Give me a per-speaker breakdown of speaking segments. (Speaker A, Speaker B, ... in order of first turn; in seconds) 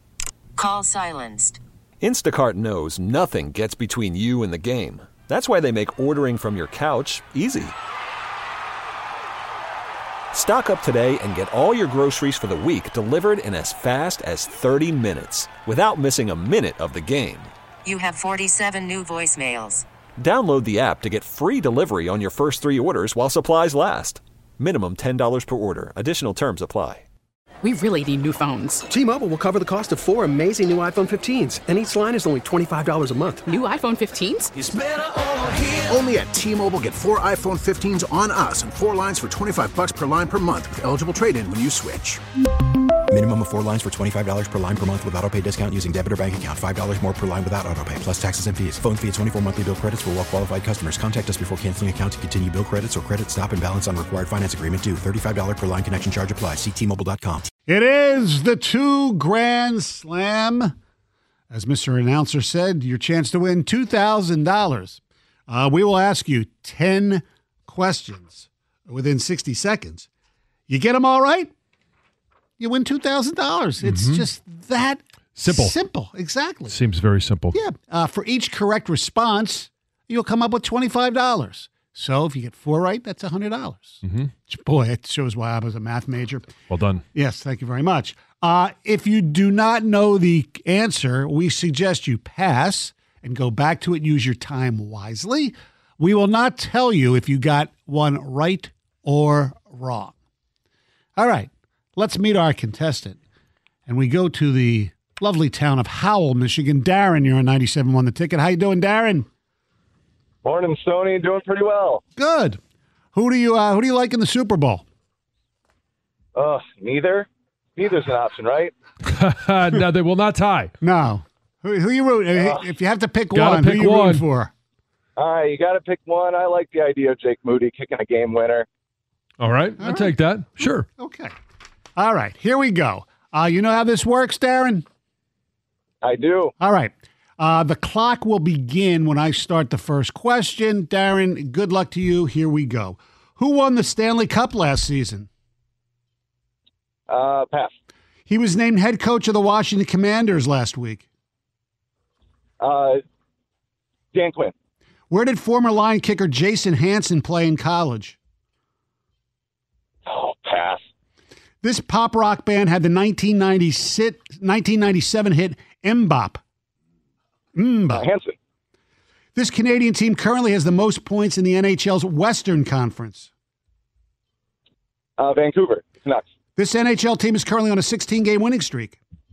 Speaker A: 0.6-1.6, 17.8-19.8
Speaker B: 2.0-7.7, 10.3-17.5, 20.2-27.0
Speaker C: 27.6-28.8, 33.5-34.5
Speaker D: 28.9-33.5
Speaker E: 34.5-42.2
Speaker F: 43.1-57.5
Speaker G: 57.7-60.7, 61.5-70.1, 70.7-71.5, 72.6-76.8, 77.5-86.5, 87.1-100.1, 101.2-103.2, 103.9-109.3, 112.2-112.6, 113.1-114.8, 120.8-124.5, 129.8-130.2, 131.0-131.3, 131.9-134.8, 136.6-145.3, 148.3-151.0, 155.1-158.2, 161.6-166.4, 167.5-168.1, 169.3-173.3, 176.6-179.0
Speaker H: 73.8-74.2, 75.3-75.7, 76.7-77.6, 84.0-84.3, 86.7-87.0, 119.0-120.7, 123.3-124.2, 129.4-130.9
Speaker I: 110.4-112.0, 116.3-118.7, 122.3-122.7, 125.2-128.7, 136.0-136.5, 147.1-147.7, 152.6-153.0, 154.1-154.5, 160.1-160.8, 167.9-168.3, 175.2-176.2